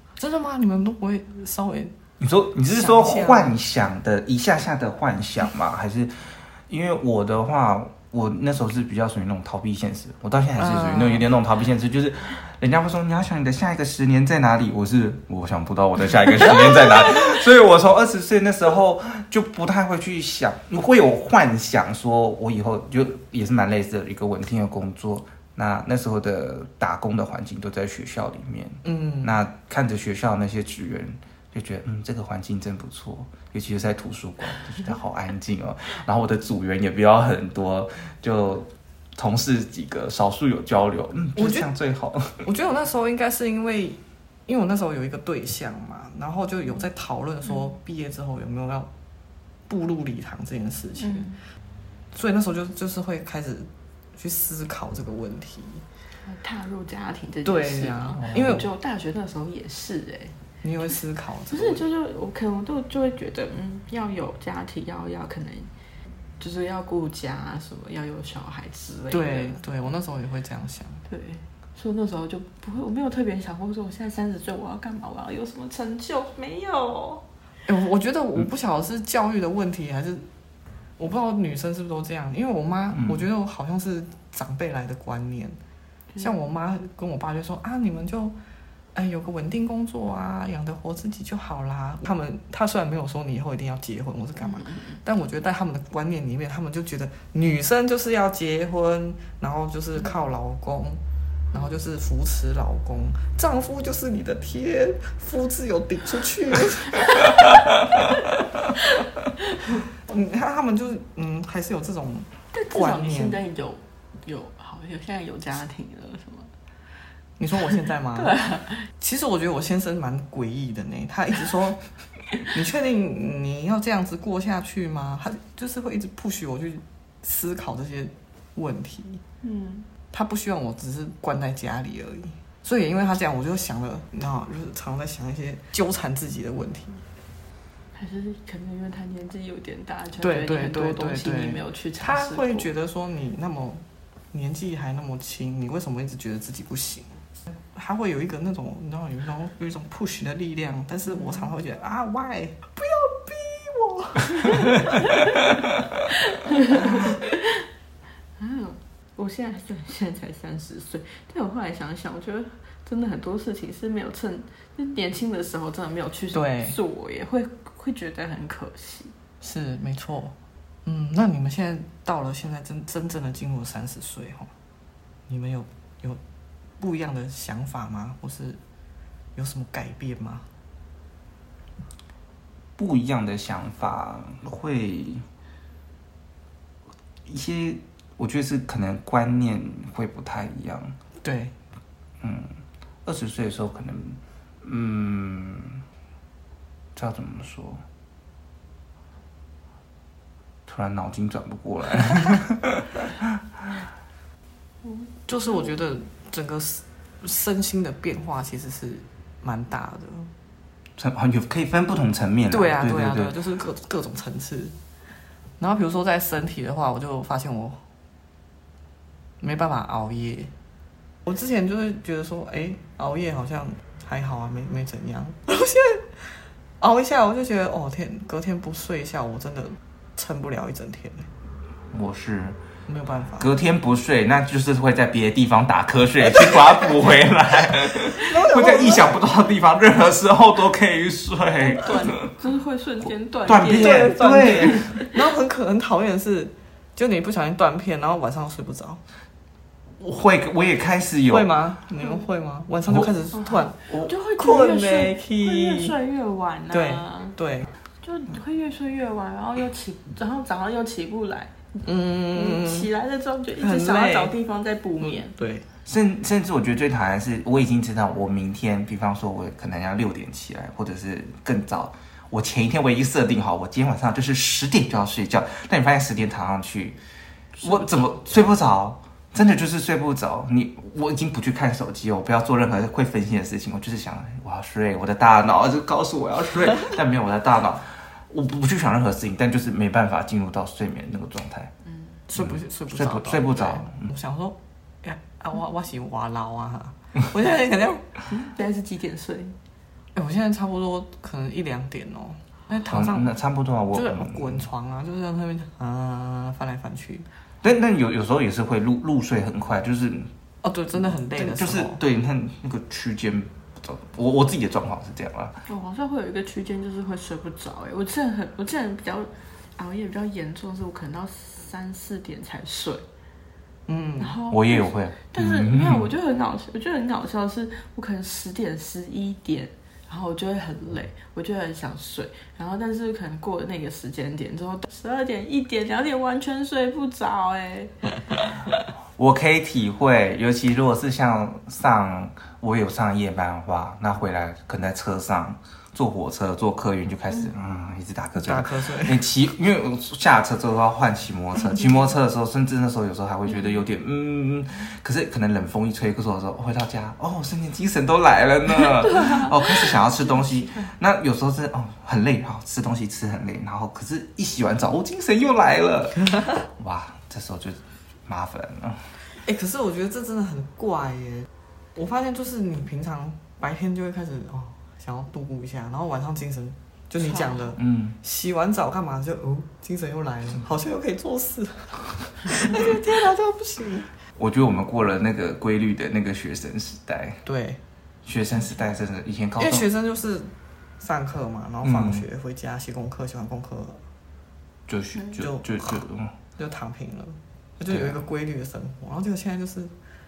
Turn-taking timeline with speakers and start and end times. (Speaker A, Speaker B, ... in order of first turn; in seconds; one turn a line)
Speaker A: 0.2-1.9
Speaker B: 2.2-6.1
Speaker A: 2.7-3.5
Speaker B: 6.7-42.4
Speaker A: 10.6-11.2
Speaker A: 28.8-29.4
Speaker A: 41.4-41.7
Speaker A: 42.4-48.9
Speaker A: 49.7-51.3
Speaker C: 51.0-51.4
Speaker A: 52.1-55.8
Speaker C: 56.3-60.4
Speaker A: 57.4-58.7
Speaker B: 58.2-58.5
Speaker A: 60.6-61.8
Speaker C: 61.5-65.7
Speaker C: 66.4-69.6
Speaker A: 69.1-71.0
Speaker C: 71.1-77.2
Speaker A: 77.7-80.3
Speaker A: 81.0-85.6
Speaker B: 82.9-83.2
Speaker A: 86.2-88.3
Speaker A: 88.9-101.0
Speaker C: 94.4-95.0
Speaker A: 101.5-107.3
Speaker A: 110.1-113.4
Speaker C: 112.5-116.5
Speaker A: 117.4-118.4
Speaker C: 117.7-118.9
Speaker A: 119.0-121.8
Speaker A: 122.5-129.2
Speaker C: 129.4-129.9
Speaker A: 130.1-137.0
Speaker C: 137.9-142.7
Speaker A: 140.2-147.2
Speaker A: 147.7-155.2
Speaker C: 151.2-151.5
Speaker C: 154.5-155.4
Speaker C: 156.1-157.7
Speaker C: 158.4-169.1
Speaker A: 166.3-166.8
Speaker A: 169.4-174.5
Speaker A: 175.3-176.2
Speaker A: 176.8-178.6
Speaker A: 179.3-180.4
Speaker B: 182.8-185.2
Speaker B: 187.3-190.9
Speaker A: 191.2-191.5
Speaker B: 192.2-192.5
Speaker B: 193.1-195.8
Speaker B: 196.9-197.8
Speaker B: 200.7-203.6
Speaker C: 204.8-205.7
Speaker A: 205.3-210.3
Speaker B: 211.0-213.3
Speaker A: 212.5-214.7
Speaker A: 215.6-217.8
Speaker A: 219.4-220.5
Speaker A: 221.2-231.3
Speaker B: 231.9-232.6
Speaker A: 232.9-233.5
Speaker B: 233.4-242.2
Speaker A: 238.1-239.1
Speaker C: 241.6-245.1
Speaker B: 243.5-244.9
Speaker A: 243.7-249.0
Speaker B: 250.0-251.5
Speaker A: 251.3-253.8
Speaker C: 253.3-257.4
Speaker A: 254.4-255.9
Speaker A: 256.7-257.7
Speaker C: 258.0-265.3
Speaker A: 261.8-262.9
Speaker A: 263.6-264.3
Speaker A: 265.0-265.6
Speaker B: 265.9-277.0
Speaker B: 277.6-291.7
Speaker A: 292.3-298.0
Speaker B: 292.4-294.1
Speaker C: 298.3-299.6
Speaker A: 300.1-303.4
Speaker B: 302.9-304.6
Speaker A: 303.9-307.2
Speaker B: 307.6-310.3
Speaker A: 310.6-312.0
Speaker B: 311.0-315.5
Speaker C: 315.7-323.0
Speaker A: 323.9-324.4
Speaker C: 324.2-338.4
Speaker B: 324.5-326.1
Speaker B: 339.2-369.0
Speaker A: 348.4-349.2
Speaker C: 358.8-360.9
Speaker A: 369.4-384.1
Speaker C: 377.2-377.7
Speaker B: 377.8-378.1
Speaker B: 384.4-387.4
Speaker A: 387.4-387.8
Speaker B: 388.2-389.9
Speaker A: 389.6-394.0
Speaker B: 391.8-392.2
Speaker B: 394.9-396.3
Speaker A: 395.4-396.0
Speaker A: 396.6-399.9